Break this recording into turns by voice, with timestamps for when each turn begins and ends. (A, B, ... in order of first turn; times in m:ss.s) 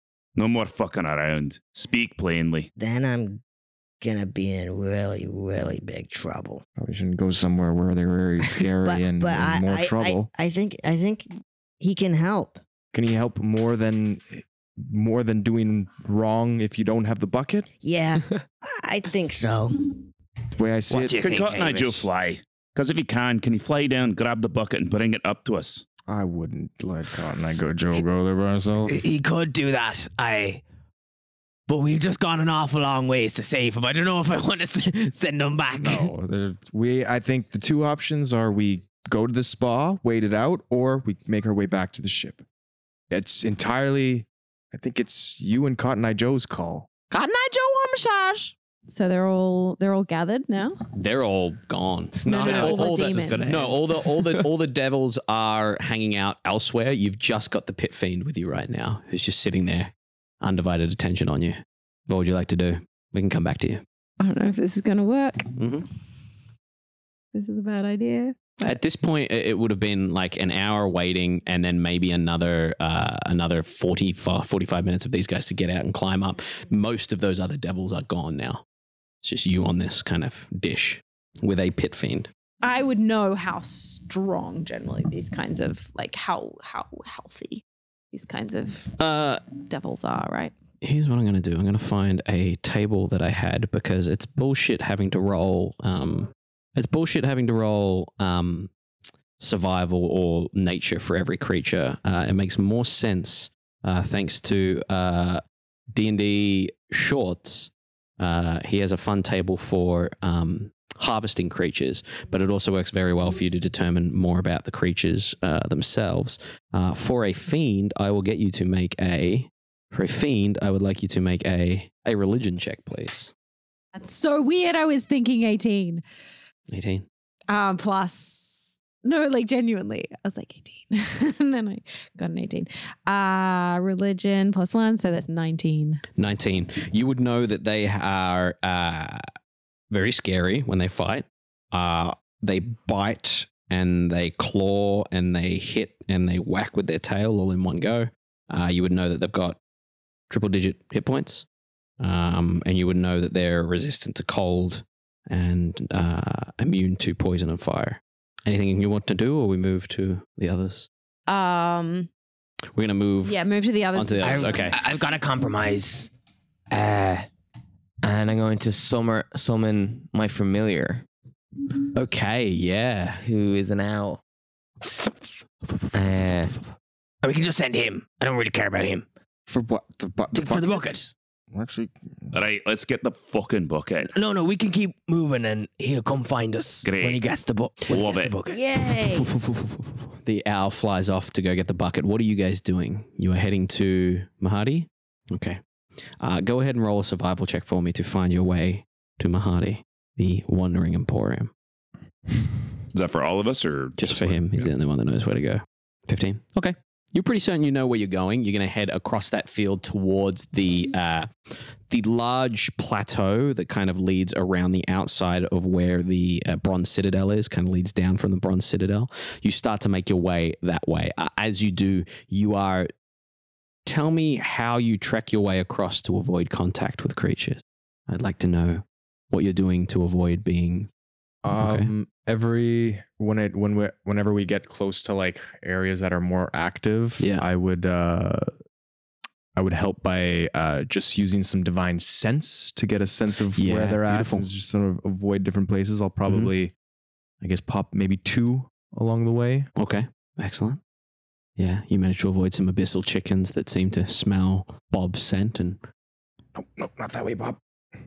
0:00.4-0:02.7 A
0:02.8-0:03.4 B
0:04.0-0:06.6 B
0:06.8-0:10.3 C
0:08.8-0:11.3 B
0:11.8-0:12.6 B
0:12.9-0:17.7 C
0:17.8-0:19.9 B
0:20.6-0:21.3 C
0:20.9-0:22.1 D
0:21.2-0:25.8 A
0:26.0-0:29.0 C
0:28.9-0:30.6 D
0:31.7-0:36.1 D
0:35.7-0:42.4 C
0:43.1-0:46.9 C
0:47.1-0:48.5 D
0:48.9-0:50.8 E
0:50.9-1:03.8 F
0:52.2-0:53.5 D
0:52.2-0:53.8 E
0:52.5-0:54.2 G
1:04.2-1:05.5 E
1:05.6-1:05.9 F
1:07.3-1:08.8 E
1:08.6-1:18.6 F
1:19.2-1:22.3 F
1:22.6-1:28.9 E
1:29.0-1:29.4 F
1:29.5-1:30.5 E
1:30.8-1:38.7 F
1:39.4-2:03.3 F
2:03.9-2:06.0 E
2:06.7-2:07.0 F
2:07.5-2:16.0 E
2:16.2-2:19.2 F
2:19.9-2:29.6 F
2:30.3-2:31.4 F
2:32.0-2:40.9 F
2:41.3-2:42.1 E
2:42.7-2:43.4 F
2:43.2-2:44.7 E
2:43.9-2:44.8 F
2:44.2-2:46.1 D
2:46.7-2:47.2 D
2:48.0-2:48.4 D
2:48.2-2:51.0 G
2:51.9-2:53.2 F
2:53.2-2:54.2 G
2:55.6-2:56.6 F
2:55.9-2:56.4 D
2:56.0-2:56.5 G
2:57.2-2:59.0 D
2:59.5-3:00.8 C
3:00.3-3:01.1 D
3:01.5-3:02.3 C
3:02.3-3:04.1 A
3:04.0-3:08.6 D
3:06.8-3:07.2 A
3:07.9-3:08.3 A
3:08.5-3:09.3 B
3:09.0-3:15.6 F
3:16.2-3:21.5 F
3:22.9-3:24.7 A
3:24.0-3:31.3 F
3:31.9-3:42.9 F
3:43.8-3:50.9 F
3:51.4-3:58.5 C
3:51.5-3:51.9 F
3:57.2-3:57.5 F
3:59.5-4:06.7 C
4:03.6-4:04.5 F
4:06.2-4:06.5 F
4:07.4-4:09.7 C
4:09.8-4:10.8 F
4:11.6-4:15.8 F
4:16.5-4:17.6 C